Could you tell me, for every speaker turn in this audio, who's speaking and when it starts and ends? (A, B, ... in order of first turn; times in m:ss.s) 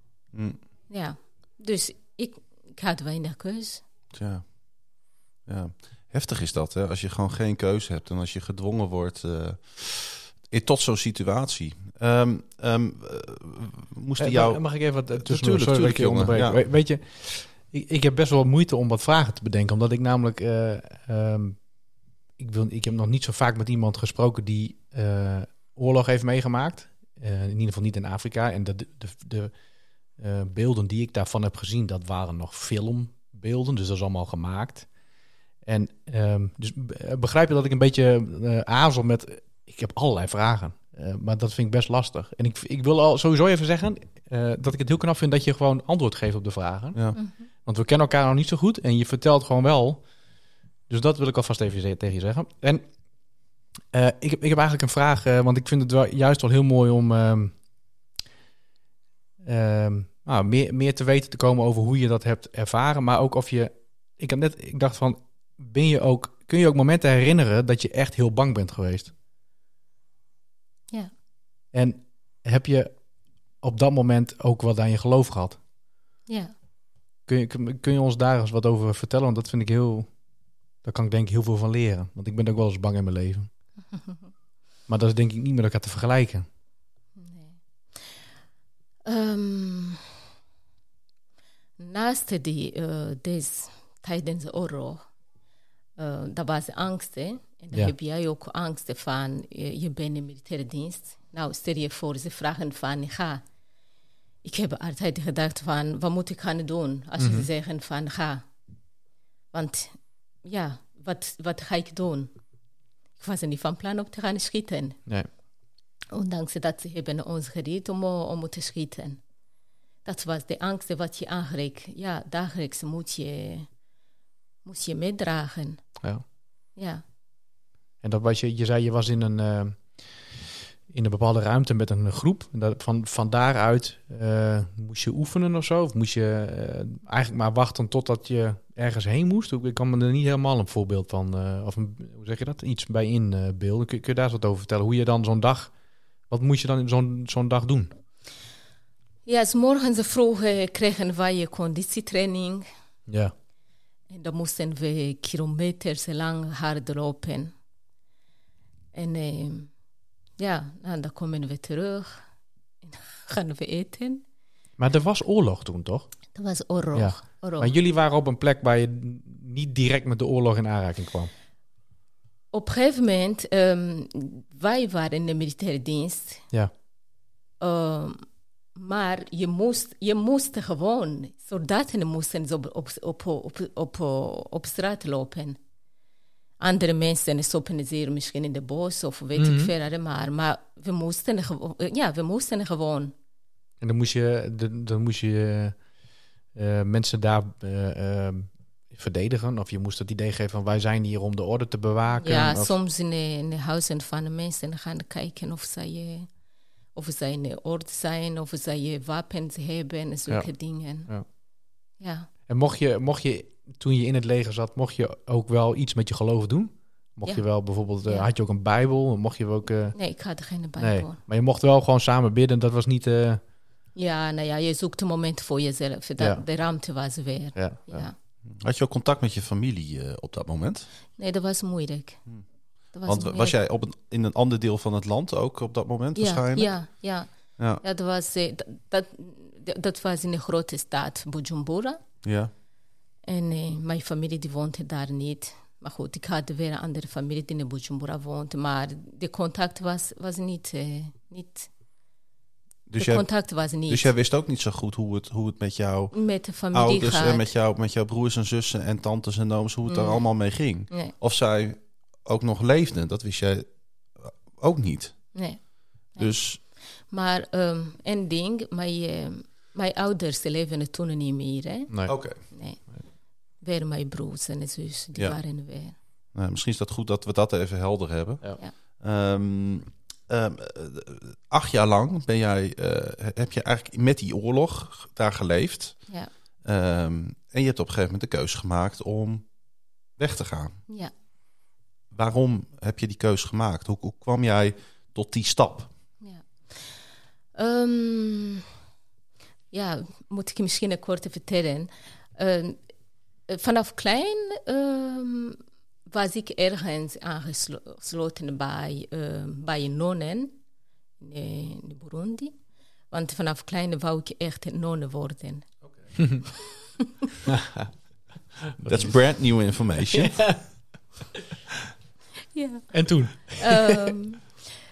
0:00.3-0:00.6 A
0:00.9-0:03.8 B
0:04.1-0:04.4 A
0:05.5-0:16.6 A
0:14.2-0:21.6 C
0:22.4-0:29.5 C
0:30.2-0:34.9 C
0:35.6-0:47.0 C
0:47.2-0:47.5 B
0:47.6-0:50.0 C
0:50.9-0:52.8 C
0:53.9-0:57.6 C
0:59.4-1:09.1 C
1:11.7-1:13.0 C
1:13.6-1:15.6 C
1:16.3-1:16.5 B
1:17.3-1:20.1 C
1:20.8-1:23.5 C
1:23.9-1:24.3 B
1:24.9-1:26.5 C
1:27.2-1:28.2 B
1:29.0-1:30.0 B
1:31.8-1:35.0 B
1:36.0-1:43.4 B
1:44.4-1:48.5 B
1:47.2-1:47.5 C
1:49.5-1:52.3 B
1:53.2-1:55.0 B
1:56.1-1:59.2 B
2:00.0-2:03.7 B
2:04.6-2:05.8 B
2:06.8-2:07.0 B
2:08.0-2:25.7 C
2:26.3-2:27.9 C
2:29.3-2:32.7 B
2:33.1-2:33.3 C
2:34.1-2:37.5 B
2:38.9-2:39.7 B
2:40.4-2:42.2 B
2:42.8-2:44.2 B
2:44.8-2:46.1 C
2:46.3-2:47.8 B
2:46.9-2:51.3 C
2:52.5-2:56.4 B
2:57.6-3:05.6 B
3:06.6-3:13.1 B
3:09.4-3:09.7 C
3:13.8-3:15.8 C
3:16.5-3:22.8 C
3:22.1-3:26.3 B
3:27.0-3:31.1 B
3:30.3-3:31.3 C
3:32.0-3:32.3 B
3:32.5-3:40.0 C
3:40.0-3:41.2 B
3:40.8-3:43.4 C
3:44.0-3:48.2 B
3:47.6-3:48.1 C
3:48.5-3:50.9 A
3:51.2-3:52.2 B
3:52.9-3:53.6 B
3:53.1-3:56.7 A
3:56.2-3:57.3 B
3:57.8-4:02.0 B
4:02.2-4:02.5 A
4:03.2-4:11.7 B
4:12.9-4:25.4 A
4:13.0-4:14.1 B
4:16.1-4:17.5 B
4:19.9-4:20.2 B
4:25.3-4:31.9 B
4:26.2-4:26.6 A
4:31.9-4:32.2 C
4:32.1-4:32.4 A
4:32.5-4:32.8 B
4:33.6-4:35.9 B
4:36.4-4:46.0 A
4:46.6-4:49.4 A
4:50.2-4:50.8 A
4:52.1-4:55.9 A
4:56.2-4:57.0 B
4:57.6-4:58.6 B
4:59.7-5:02.8 B
5:03.5-5:10.6 B
5:11.2-5:12.5 B
5:13.1-5:15.7 B
5:16.2-5:16.4 C
5:17.5-5:17.9 C
5:18.7-5:19.2 C
5:18.9-5:20.5 A
5:20.1-5:20.6 C
5:22.5-5:23.1 B
5:22.9-5:24.2 C
5:23.6-5:24.7 B